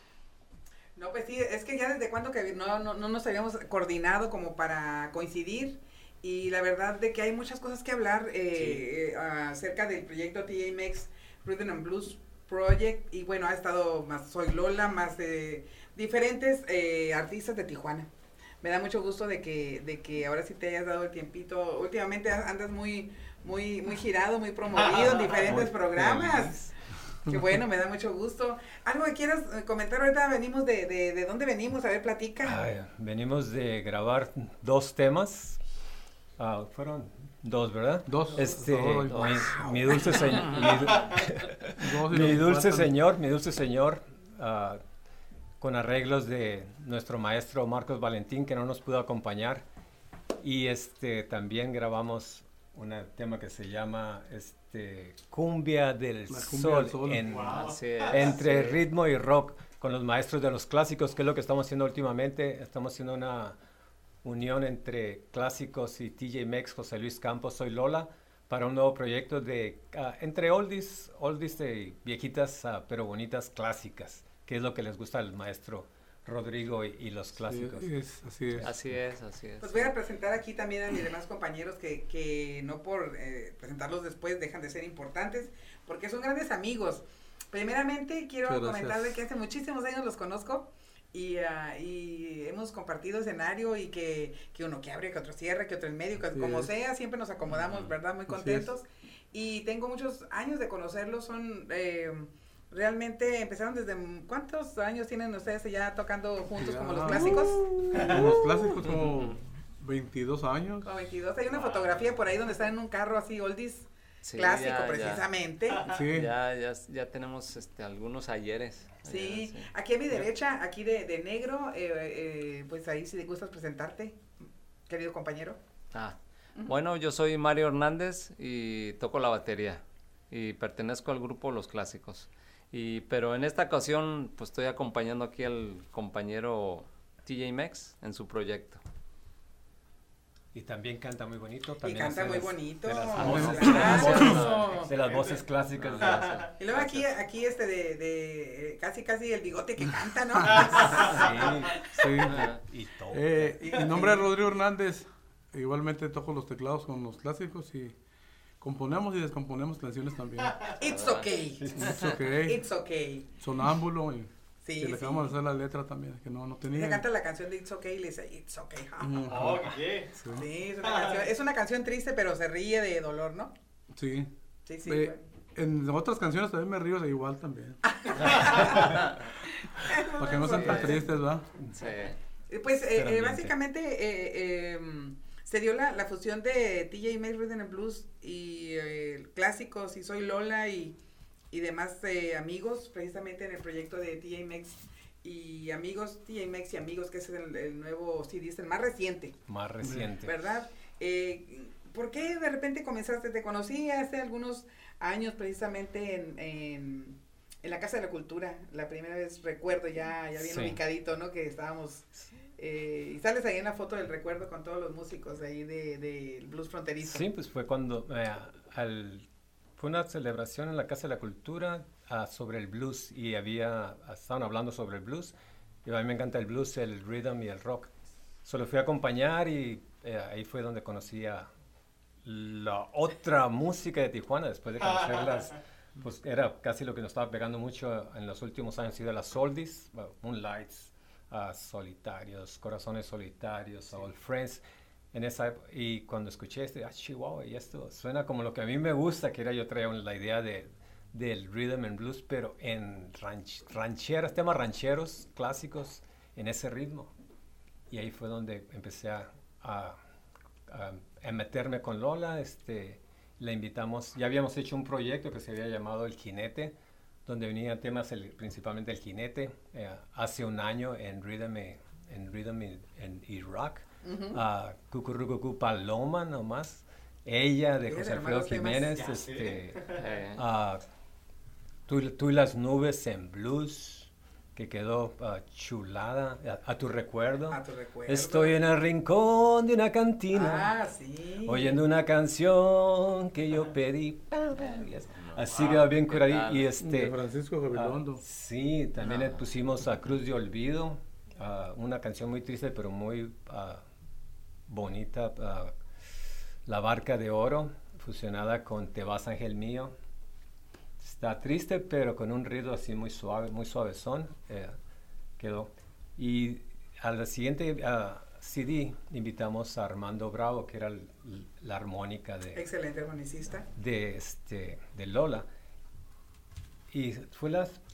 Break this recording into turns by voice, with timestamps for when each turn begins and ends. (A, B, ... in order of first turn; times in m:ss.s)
0:01.0-0:18.1 A
0:18.6-0:26.5 A
0:24.7-0:25.4 B
0:25.2-0:26.7 C
0:27.2-0:32.6 A
0:32.4-0:35.6 C
0:36.4-0:44.8 C
0:38.1-0:39.3 D
0:39.1-0:39.4 E
0:39.3-0:40.3 A
0:40.7-0:41.2 B
0:41.8-0:42.9 D
0:45.6-0:49.6 C
0:50.4-1:03.6 C
0:56.3-0:57.3 D
0:57.2-0:58.4 B
0:57.5-0:58.8 E
1:04.2-1:17.9 C
1:17.4-1:18.7 D
1:18.6-1:19.9 E
1:19.6-1:47.6 A
1:28.4-1:29.2 D
1:36.2-1:36.7 D
1:37.5-1:37.9 E
1:38.3-1:38.7 D
1:46.6-1:51.0 D
1:47.9-1:48.3 B
1:50.8-1:55.8 A
1:51.5-1:52.1 B
1:54.2-1:55.2 E
1:55.7-1:56.0 B
1:55.9-1:56.3 D
1:56.0-2:00.2 E
1:59.0-2:04.2 A
2:04.9-2:05.6 A
2:05.9-2:18.8 E
2:20.5-2:26.4 C
2:21.8-2:24.9 A
2:23.2-2:24.3 D
2:23.7-2:24.6 E
2:24.8-2:25.4 B
2:25.8-2:27.0 E
2:26.0-2:26.5 B
2:26.6-2:31.5 A
2:30.5-2:31.4 B
2:31.0-2:33.7 C
2:32.0-2:32.5 D
2:32.3-2:32.6 E
2:33.1-2:38.0 D
2:33.6-2:34.2 A
2:38.6-2:40.7 D
2:40.8-2:43.3 A
2:40.8-2:41.3 E
2:41.6-2:42.1 C
2:41.7-2:42.6 D
2:43.4-2:47.0 D
2:44.6-2:45.3 A
2:46.7-2:49.3 A
2:49.0-2:49.6 D
2:49.3-2:50.1 B
2:50.2-2:50.5 D
2:50.3-2:53.5 A
2:50.8-2:51.3 B
2:53.9-2:54.3 D
2:54.6-2:55.2 A
2:54.8-2:57.8 D
2:57.8-2:59.0 A
2:58.4-2:59.1 E
2:59.6-3:01.0 A
3:00.2-3:01.4 D
3:01.7-3:02.2 E
3:02.5-3:10.9 A
3:02.8-3:03.5 C
3:11.5-3:19.4 A
3:19.5-3:20.3 C
3:20.2-3:37.2 A
3:30.4-3:30.8 C
3:37.0-3:45.3 C
3:45.8-3:47.9 C
3:48.4-3:51.5 C
3:52.2-4:17.1 C
3:54.8-3:55.6 B
4:17.9-4:20.0 C
4:20.7-4:39.8 C
4:34.0-4:34.4 A
4:37.9-4:38.9 A
4:38.9-4:40.0 B
4:40.0-4:40.4 E
4:40.3-4:40.8 C
4:41.9-4:50.7 C
4:47.5-4:48.6 A
4:50.3-4:51.8 A
4:51.4-4:57.2 C
4:55.5-4:55.9 B
4:56.0-4:56.7 E
4:56.8-4:58.2 D
4:57.7-5:03.8 C
4:59.0-4:59.4 E
5:04.7-5:05.7 C
5:06.6-5:09.9 C
5:11.0-5:14.7 C
5:15.4-5:22.6 C
5:22.5-5:23.7 A
5:23.7-5:25.5 C
5:26.9-5:27.8 C